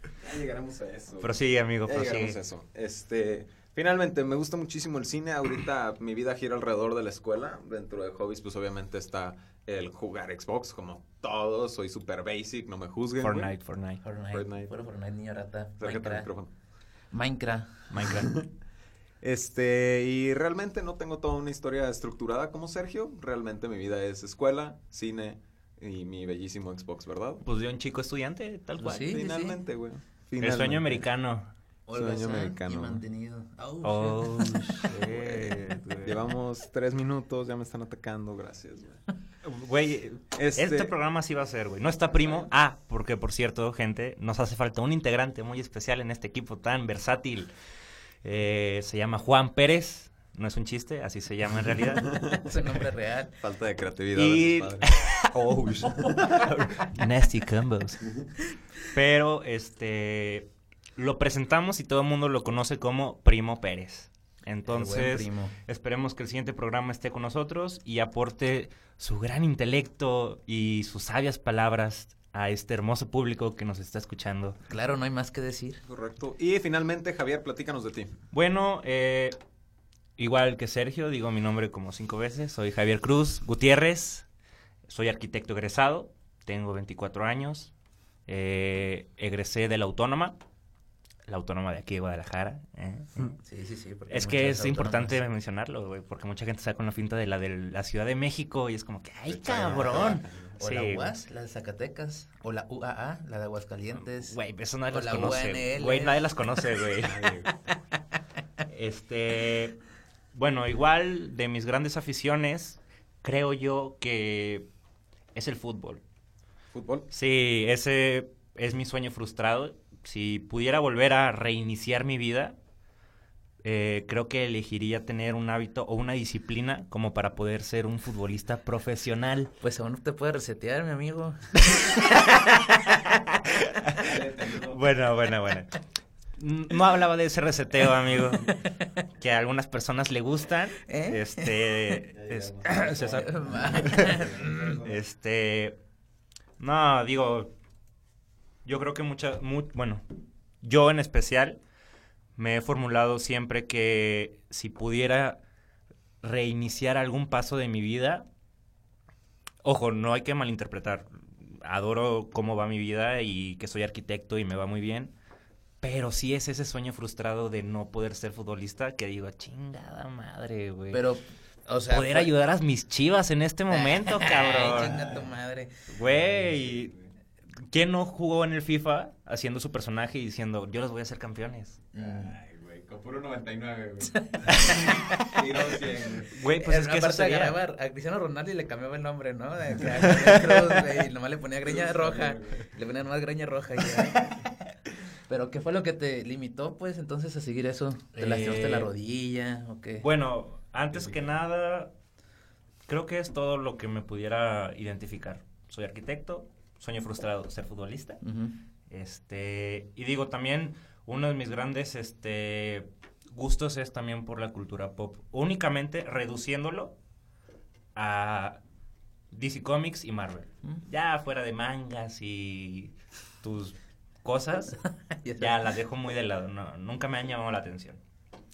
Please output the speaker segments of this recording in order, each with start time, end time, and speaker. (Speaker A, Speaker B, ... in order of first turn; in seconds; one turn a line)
Speaker A: 0.2-13.5
Speaker B: 1.2-2.4
Speaker B: 13.2-14.0
Speaker C: 14.0-16.3
Speaker A: 14.3-14.7
Speaker A: 15.8-16.5
Speaker C: 17.1-17.9
Speaker B: 17.9-18.4
Speaker A: 18.1-18.5
Speaker A: 19.2-27.4
Speaker B: 27.4-29.2
Speaker C: 28.8-29.6
Speaker A: 29.1-31.0
Speaker B: 30.4-31.5
Speaker C: 31.9-34.9
Speaker A: 31.9-33.0
Speaker B: 33.8-36.2
Speaker A: 34.9-39.0
Speaker B: 39.4-47.5
Speaker A: 40.4-40.9
Speaker A: 42.1-42.5
Speaker B: 48.2-52.2
Speaker A: 52.1-52.5
Speaker C: 52.4-53.4
Speaker A: 53.4-56.5
Speaker B: 54.1-58.1
Speaker B: 58.9-74.6
Speaker C: 64.7-65.5
Speaker C: 74.7-75.8
Speaker A: 75.9-78.2
Speaker B: 78.3-79.4
Speaker B: 80.2-84.3
Speaker B: 84.9-87.7
Speaker B: 88.3-90.4
Speaker B: 91.3-93.4
Speaker C: 93.4-95.2
Speaker B: 94.1-101.1
Speaker A: 99.3-100.5
Speaker C: 100.6-104.4
Speaker B: 104.0-107.3
Speaker C: 104.9-106.2
Speaker A: 107.0-107.6
Speaker B: 108.7-109.8
Speaker B: 110.3-114.7
Speaker B: 115.3-116.0
Speaker A: 116.7-117.1
Speaker B: 117.1-122.6
Speaker B: 123.6-129.5
Speaker C: 129.6-132.0
Speaker B: 132.0-135.8
Speaker A: 134.0-134.9
Speaker B: 136.4-144.3
Speaker C: 140.9-142.0
Speaker A: 142.1-145.0
Speaker C: 142.8-144.8
Speaker B: 144.8-145.8
Speaker B: 146.6-147.5
Speaker B: 148.7-150.0
Speaker B: 150.6-151.6
Speaker B: 152.4-155.4
Speaker B: 156.2-158.3
Speaker B: 159.6-165.2
Speaker B: 165.8-171.0
Speaker C: 170.9-172.3
Speaker B: 171.9-175.1
Speaker C: 173.7-175.9
Speaker A: 174.7-175.2
Speaker B: 175.9-176.9
Speaker A: 176.2-177.1
Speaker B: 177.7-181.8
Speaker C: 181.9-182.4
Speaker A: 182.0-186.4
Speaker C: 184.1-185.5
Speaker B: 184.5-185.1
Speaker B: 186.3-187.6
Speaker C: 186.6-194.3
Speaker B: 190.0-190.8
Speaker A: 191.7-192.7
Speaker C: 195.3-200.1
Speaker B: 198.1-198.9
Speaker B: 200.0-201.9
Speaker B: 202.9-208.2
Speaker C: 208.2-208.6
Speaker B: 208.9-217.0
Speaker B: 217.9-218.6
Speaker B: 219.3-224.8
Speaker C: 225.1-225.6
Speaker B: 225.4-228.0